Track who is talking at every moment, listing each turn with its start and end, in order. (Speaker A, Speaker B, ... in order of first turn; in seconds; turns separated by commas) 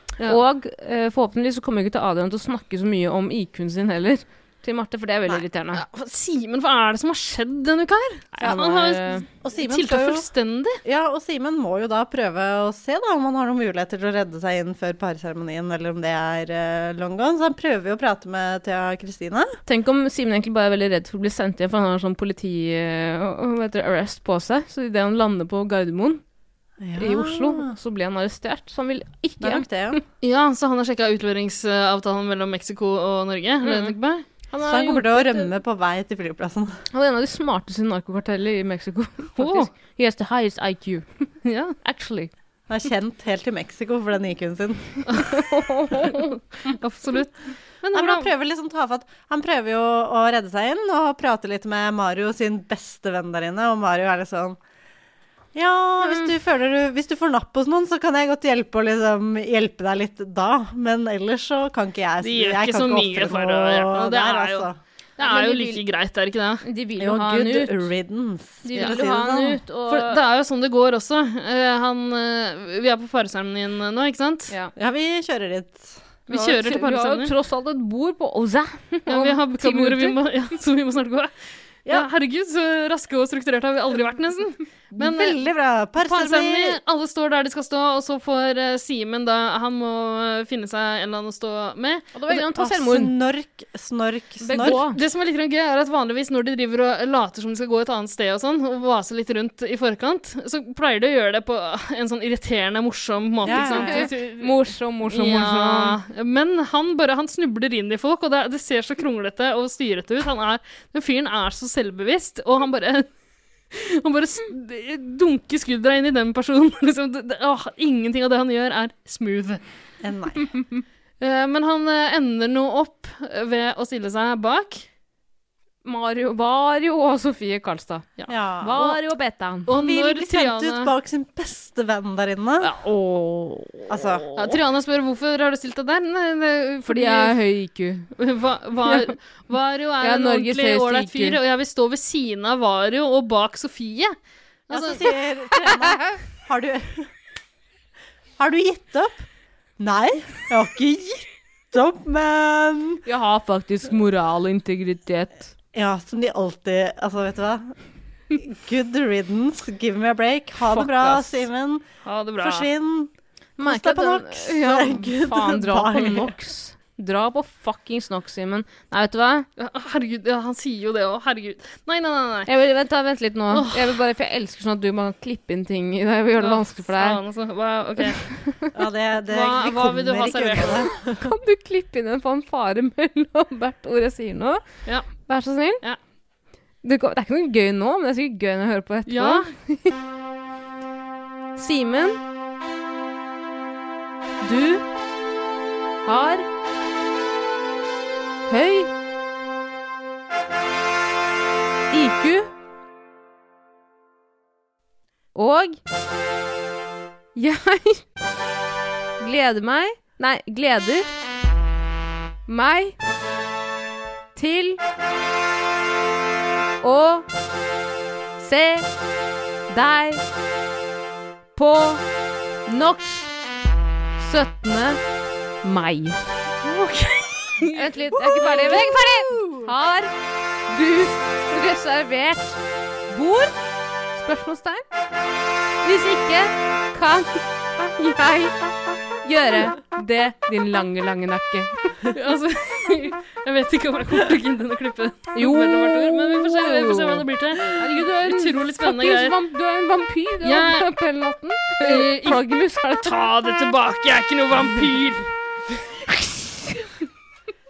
Speaker A: 0.2-5.8, Speaker B: 5.7-10.8, Speaker A: 8.4-9.2, Speaker C: 8.4-8.8, Speaker C: 9.4-10.3, Speaker C: 10.8-19.6, Speaker A: 19.7-26.2, Speaker C: 26.8-27.8, Speaker A: 27.0-30.0, Speaker C: 29.4-30.0, Speaker B: 30.2-34.2, Speaker A: 33.6-34.0, Speaker A: 34.5-35.5, Speaker C: 34.6-36.8, Speaker A: 36.9-41.1, Speaker B: 39.4-39.7, Speaker B: 41.5-41.8, Speaker A: 41.8-42.3, Speaker C: 42.7-45.0, Speaker A: 45.2-46.4, Speaker B: 46.7-48.3, Speaker C: 47.9-54.6, Speaker C: 55.5-64.8, Speaker A: 56.0-56.3, Speaker B: 62.2-66.6, Speaker A: 65.2-65.8, Speaker A: 66.6-67.9, Speaker C: 67.0-69.6, Speaker A: 68.6-70.2, Speaker B: 69.9-74.5, Speaker C: 74.8-76.4, Speaker B: 76.3-77.3, Speaker A: 76.3-80.2, Speaker B: 79.1-81.3, Speaker B: 81.9-85.4, Speaker C: 85.0-86.8, Speaker B: 86.0-92.1, Speaker A: 92.1-93.1, Speaker C: 92.3-94.8, Speaker A: 94.4-95.0, Speaker B: 94.6-113.1, Speaker C: 103.4-104.1, Speaker A: 103.5-106.0, Speaker B: 113.7-119.6, Speaker C: 120.0-120.5, Speaker B: 121.2-124.8, Speaker A: 125.8-128.1, Speaker C: 128.3-129.0, Speaker A: 128.6-129.7, Speaker B: 129.7-130.9, Speaker C: 129.7-132.7, Speaker A: 132.6-134.6, Speaker C: 133.9-134.2, Speaker B: 134.4-137.4, Speaker A: 136.8-138.1, Speaker B: 138.2-144.2, Speaker A: 138.9-139.2, Speaker A: 140.0-141.4, Speaker B: 144.7-145.0, Speaker C: 144.7-147.1, Speaker C: 148.4-149.3, Speaker C: 149.8-153.0, Speaker A: 153.1-155.5, Speaker C: 155.7-157.8, Speaker C: 158.3-161.8, Speaker B: 160.7-161.4, Speaker B: 162.0-162.7, Speaker C: 162.4-166.3, Speaker A: 163.6-169.5, Speaker B: 169.6-172.5, Speaker A: 172.5-177.2, Speaker B: 173.5-173.9, Speaker B: 176.4-178.2, Speaker A: 178.2-178.7, Speaker C: 178.7-181.3, Speaker B: 179.3-180.9, Speaker A: 181.2-185.8, Speaker B: 184.9-185.3, Speaker A: 186.8-189.9, Speaker B: 189.1-189.5, Speaker A: 191.6-192.2, Speaker A: 194.4-194.8, Speaker A: 196.1-196.4, Speaker A: 198.5-198.9, Speaker A: 201.9-202.5, Speaker A: 205.3-205.8, Speaker A: 207.4-208.0, Speaker A: 209.2-211.1, Speaker A: 212.5-213.0, Speaker A: 214.3-214.8, Speaker A: 216.8-217.3, Speaker A: 218.4-218.9, Speaker A: 219.7-220.2, Speaker A: 221.6-222.0, Speaker A: 222.7-223.3, Speaker A: 224.2-225.0, Speaker A: 225.6-226.2, Speaker B: 226.6-227.9, Speaker A: 227.6-230.1, Speaker C: 228.1-229.7, Speaker A: 230.7-233.5, Speaker A: 234.1-234.8, Speaker A: 235.8-242.1, Speaker B: 242.1-249.4, Speaker A: 245.3-247.2, Speaker A: 247.8-253.5, Speaker B: 250.4-250.9, Speaker B: 251.8-252.5, Speaker B: 253.0-255.3, Speaker A: 256.1-256.9